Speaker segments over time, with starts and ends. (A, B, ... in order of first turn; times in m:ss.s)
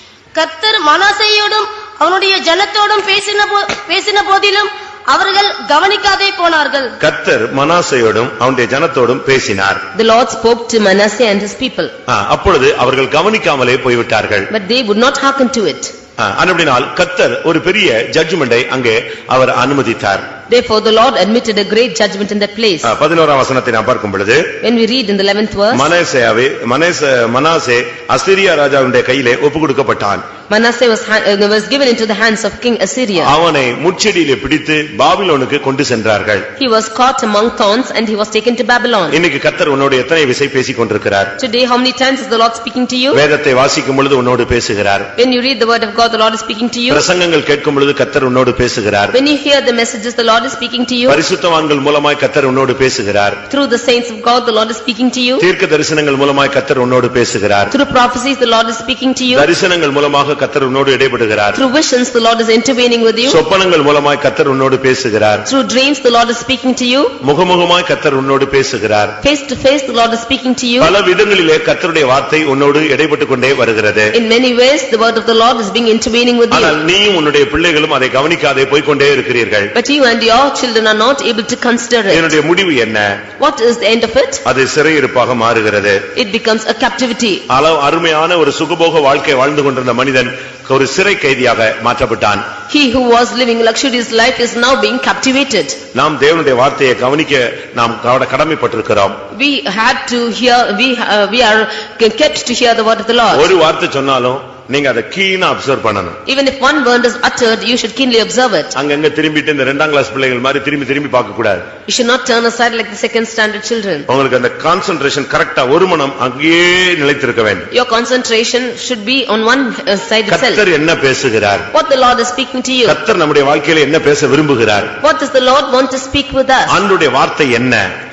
0:00.3-0:06.9 A
0:07.0-0:09.8 B
0:09.9-0:11.9 C
0:12.1-0:14.5 B
0:14.5-0:15.9 C
0:16.2-0:20.2 B
0:20.5-0:22.9 C
0:22.8-0:24.4 B
0:24.6-0:25.9 C
0:25.7-0:30.2 B
0:30.5-0:33.3 C
0:33.2-0:36.4 B
0:36.6-0:39.2 C
0:39.1-0:41.3 B
0:41.4-0:43.2 C
0:43.1-0:45.1 B
0:45.2-0:47.0 C
0:46.9-0:49.2 B
0:49.1-0:51.2 C
0:51.1-0:53.4 B
0:53.5-0:55.4 C
0:55.4-0:57.7 B
0:57.7-0:59.5 C
0:59.3-1:01.6 B
1:01.5-1:03.4 C
1:03.2-1:05.4 B
1:05.4-1:07.1 C
1:07.2-1:09.1 B
1:09.2-1:10.9 C
1:10.8-1:14.1 B
1:14.1-1:16.8 C
1:16.5-1:19.7 B
1:19.7-1:22.3 C
1:22.1-1:23.2 B
1:23.4-1:24.4 C
1:24.4-1:26.0 B
1:26.1-1:27.4 C
1:27.5-1:32.4 B
1:32.7-1:35.8 C
1:35.9-1:39.2 B
1:39.3-1:43.5 C
1:43.3-1:46.2 B
1:46.2-1:48.7 C
1:48.7-1:51.6 B
1:51.9-1:54.1 C
1:54.1-1:57.7 B
1:57.7-2:00.6 C
2:00.3-2:01.7 B
2:01.7-2:03.0 C
2:02.8-2:04.9 B
2:05.0-2:06.8 C
2:06.7-2:07.8 B